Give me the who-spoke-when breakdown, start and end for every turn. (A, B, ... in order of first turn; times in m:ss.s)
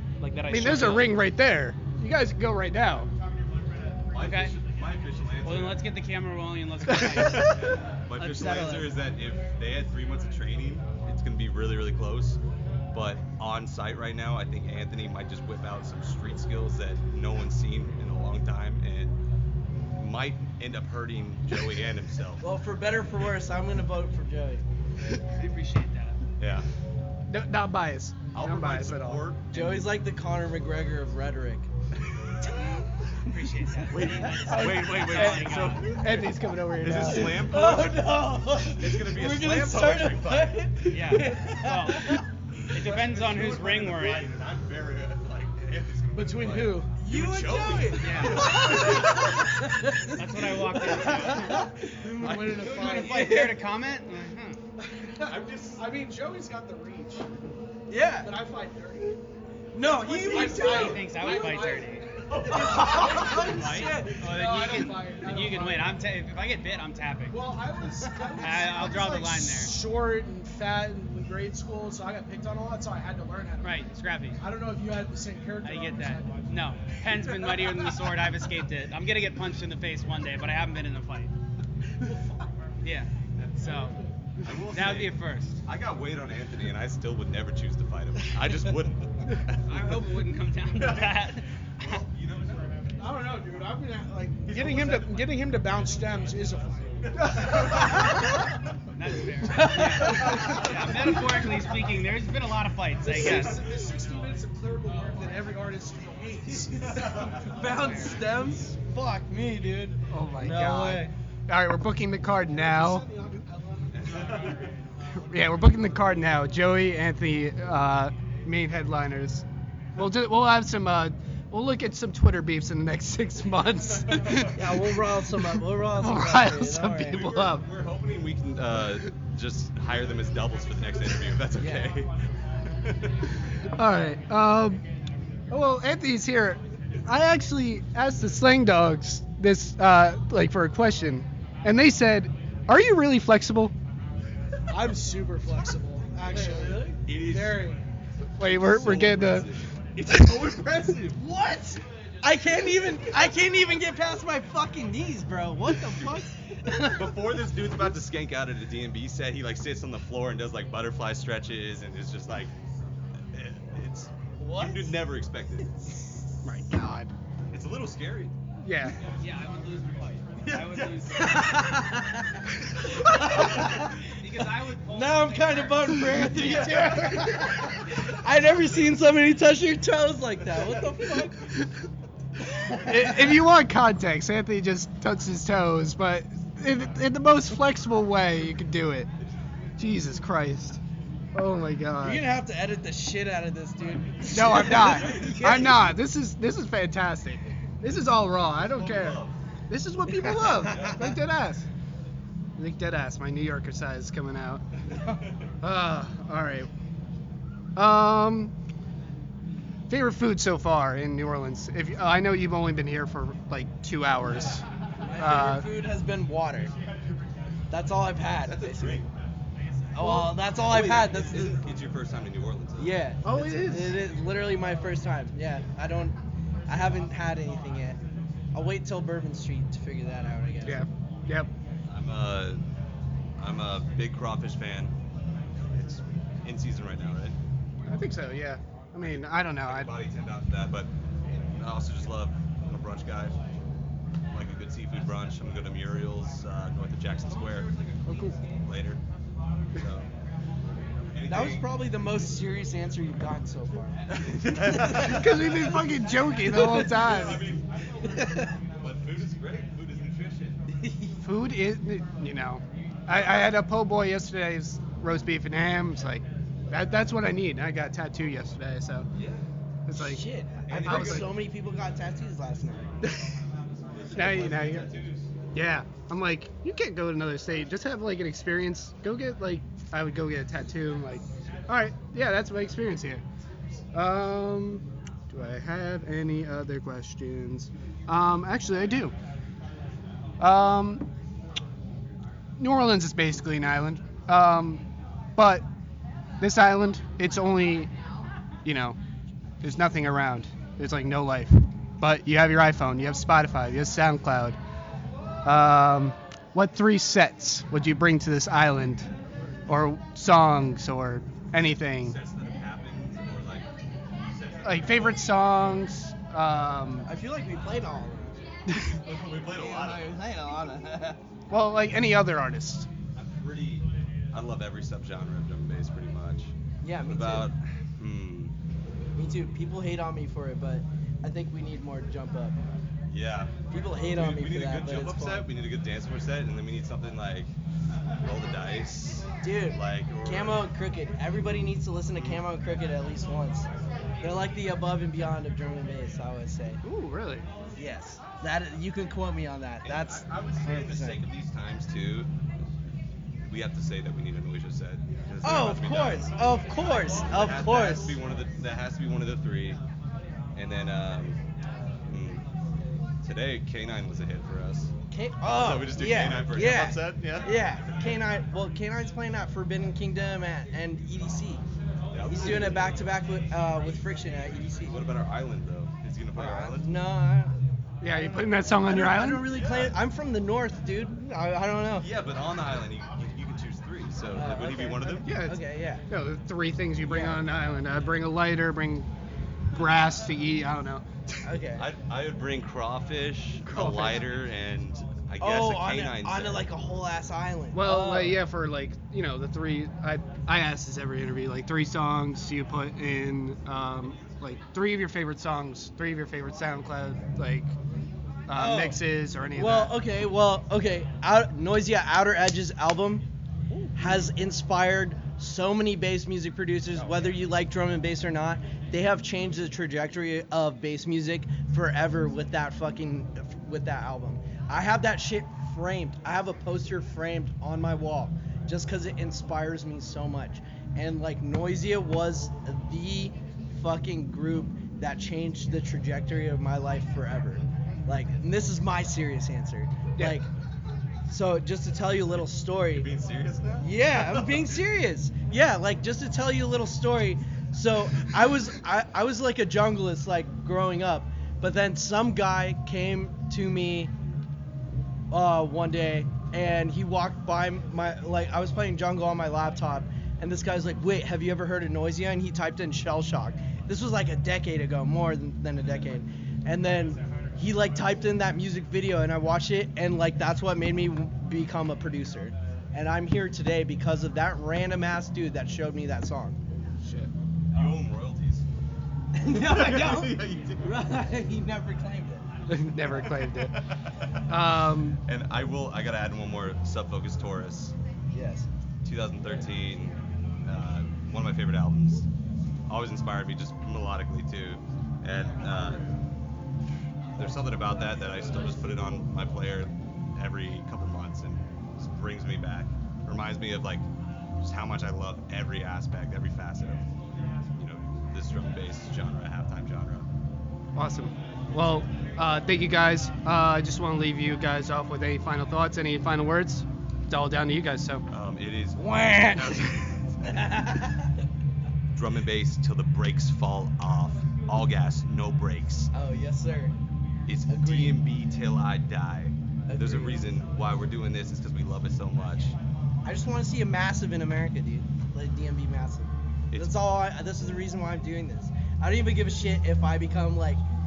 0:00.2-0:01.1 A
0:00.5-0:03.1 B
0:04.1-0:05.8 C
0:04.2-0:04.5 A
0:05.4-0:07.6 A
0:07.0-0:12.4 C
0:08.2-0:08.9 D
0:12.9-0:19.2 C
0:20.0-0:22.4 C
0:22.4-0:24.6 D
0:25.3-0:26.2 A
0:26.4-0:26.7 C
0:27.3-0:29.2 B
0:28.3-0:29.9 C
0:29.5-0:31.7 D
0:32.4-0:33.3 D
0:33.2-0:36.0 A
0:33.9-0:41.3 C
0:34.3-0:35.0 D
0:35.1-0:37.4 B
0:36.9-0:42.2 D
0:40.9-0:44.3 A
0:42.7-0:49.5 C
0:46.1-0:48.4 E
0:47.0-0:53.6 D
0:48.0-0:48.4 A
0:50.1-0:51.7 A
0:51.0-0:51.4 C
0:52.2-0:53.4 E
0:52.2-0:52.8 C
0:52.6-0:54.6 A
0:54.9-0:57.2 E
0:55.2-0:55.8 C
0:57.9-0:58.3 D
0:58.2-0:59.2 E
0:59.7-1:01.6 D
0:59.8-1:01.1 C
1:00.0-1:06.0 E
1:00.3-1:02.0 A
1:02.3-1:04.0 C
1:02.5-1:04.1 D
1:03.3-1:07.4 A
1:07.3-1:13.9 E
1:08.1-1:08.5 D
1:08.4-1:09.7 A
1:13.6-1:14.4 A
1:14.4-1:16.5 E
1:15.6-1:21.3 A
1:22.0-1:22.4 E
1:22.8-1:23.9 A
1:23.4-1:23.8 C
1:24.4-1:30.2 C
1:24.7-1:25.6 A
1:29.6-1:32.0 A
1:30.7-1:32.8 C
1:33.0-1:38.1 E
1:34.5-1:35.2 C
1:37.2-1:38.2 C
1:38.9-1:43.7 A
1:39.5-1:41.1 D
1:40.0-1:41.0 C
1:40.3-1:40.6 E
1:43.0-1:47.9 E
1:46.7-1:47.6 C
1:47.4-1:51.1 D
1:47.6-1:48.2 A
1:50.1-1:53.0 B
1:52.4-1:54.6 E
1:53.9-1:54.7 C
1:55.2-1:59.4 B
2:00.0-2:04.6 B
2:04.1-2:04.5 C
2:04.5-2:07.2 D
2:06.0-2:07.6 B
2:07.1-2:12.1 C
2:11.6-2:11.9 D
2:12.7-2:13.1 C
2:13.8-2:14.8 B
2:15.5-2:23.7 B
2:24.7-2:27.8 E
2:26.3-2:27.0 D
2:27.0-2:27.8 C
2:28.4-2:29.5 B
2:28.4-2:31.2 C
2:31.2-2:37.3 D
2:36.8-2:42.5 C
2:43.3-2:45.7 C
2:44.4-2:44.9 D
2:46.4-2:47.1 B
2:47.5-2:48.3 C
2:48.6-2:49.0 B
2:49.2-2:51.8 A
2:50.4-2:51.3 C
2:51.1-2:54.1 D
2:53.2-2:53.8 C
2:53.2-2:56.0 A
2:54.9-3:01.4 D
2:56.3-2:57.8 C
3:00.5-3:00.8 C
3:02.4-3:03.3 D
3:02.7-3:09.1 B
3:09.8-3:10.8 B
3:11.3-3:12.2 B
3:12.0-3:15.9 D
3:14.3-3:21.6 B
3:14.6-3:15.9 C
3:18.5-3:19.4 C
3:20.1-3:21.1 D
3:20.6-3:21.1 C
3:22.6-3:24.6 B
3:25.6-3:26.7 B
3:27.8-3:28.5 B
3:29.9-3:34.6 B
3:35.0-3:36.7 D
3:35.2-3:35.7 B
3:37.7-3:39.0 D
3:38.4-3:39.1 C
3:40.0-3:41.6 D
3:40.0-3:40.3 B
3:40.4-3:43.0 C
3:42.8-3:46.1 D
3:43.2-3:44.0 B
3:46.7-3:48.0 D
3:48.5-3:50.8 D
3:50.6-3:51.5 B
3:51.9-3:52.6 C
3:53.4-3:54.9 C
3:55.6-3:57.3 C
3:57.9-3:59.9 B
3:59.6-4:03.4 C
4:04.3-4:07.7 C
4:08.0-4:08.4 B
4:08.6-4:09.0 C
4:09.7-4:10.1 C
4:11.1-4:11.7 C
4:11.3-4:15.2 D
4:14.4-4:15.7 C
4:14.8-4:17.4 B
4:16.5-4:16.9 D
4:16.6-4:17.7 C
4:18.1-4:18.5 D
4:18.8-4:20.6 C
4:20.8-4:21.1 D
4:21.2-4:29.1 B
4:29.1-4:29.4 C
4:29.9-4:30.2 B
4:29.9-4:32.9 D
4:30.7-4:31.4 C
4:30.8-4:31.3 B
4:33.9-4:35.3 C
4:34.1-4:34.9 B
4:35.5-4:43.2 B
4:43.9-4:49.1 B
4:50.4-4:51.1 B
4:52.6-4:54.8 B
4:55.4-4:55.6 B
4:56.4-4:57.9 B
4:58.6-4:59.0 B
4:59.6-5:04.6 B
5:05.4-5:09.1 B
5:09.7-5:12.2 B
5:11.6-5:15.3 C
5:14.6-5:17.1 B
5:17.1-5:18.4 D
5:18.9-5:20.2 C
5:19.5-5:21.2 D
5:21.5-5:22.9 B
5:23.2-5:26.5 C
5:26.8-5:27.5 D
5:27.0-5:28.5 C
5:29.2-5:32.6 D
5:33.1-5:37.5 C
5:33.7-5:35.4 D
5:38.2-5:40.7 C
5:39.4-5:43.7 D
5:42.2-5:42.4 C
5:44.2-5:46.8 D
5:46.8-5:47.5 B
5:47.8-5:51.2 D
5:49.8-5:52.3 C
5:53.4-5:59.8 C
5:55.4-5:58.2 D
6:00.5-6:01.4 C
6:02.1-6:02.4 C
6:03.2-6:04.9 C
6:05.1-6:11.6 D
6:05.4-6:07.6 C
6:12.1-6:13.0 C
6:12.3-6:15.0 D
6:14.9-6:17.0 C
6:16.3-6:17.6 D
6:18.0-6:19.5 B
6:18.8-6:22.1 D
6:19.5-6:20.0 C
6:21.9-6:25.3 C
6:24.3-6:26.0 D
6:25.2-6:29.1 B
6:27.0-6:27.4 D
6:29.7-6:31.0 B
6:31.4-6:31.8 D
6:31.8-6:36.7 C
6:33.7-6:34.1 B
6:33.8-6:34.1 D
6:35.4-6:38.4 D
6:37.7-6:47.7 B
6:48.5-6:49.9 B
6:48.5-6:49.0 D
6:49.5-6:53.2 D
6:53.8-7:20.5 D
7:21.3-7:23.1 D
7:22.9-7:24.8 C
7:23.8-7:34.1 D
7:35.3-7:56.6 D
7:57.7-7:58.6 C
7:59.3-8:02.4 D
7:59.4-8:01.0 C
8:02.7-8:03.8 B
8:03.4-8:04.7 C
8:04.5-8:05.2 B
8:05.2-8:07.9 C
8:08.3-8:08.7 D
8:09.0-8:12.2 C
8:12.9-8:16.0 C
8:17.3-8:24.0 C
8:24.6-8:27.0 C
8:27.8-8:30.3 C
8:31.0-8:38.2 B
8:38.3-8:40.7 C
8:39.0-8:39.8 B
8:40.5-8:41.3 D
8:42.1-8:46.1 C
8:46.1-8:46.9 D
8:47.5-8:52.8 C
8:47.7-8:48.2 D
8:49.9-8:50.4 D
8:53.2-9:00.8 D
8:56.7-8:57.0 C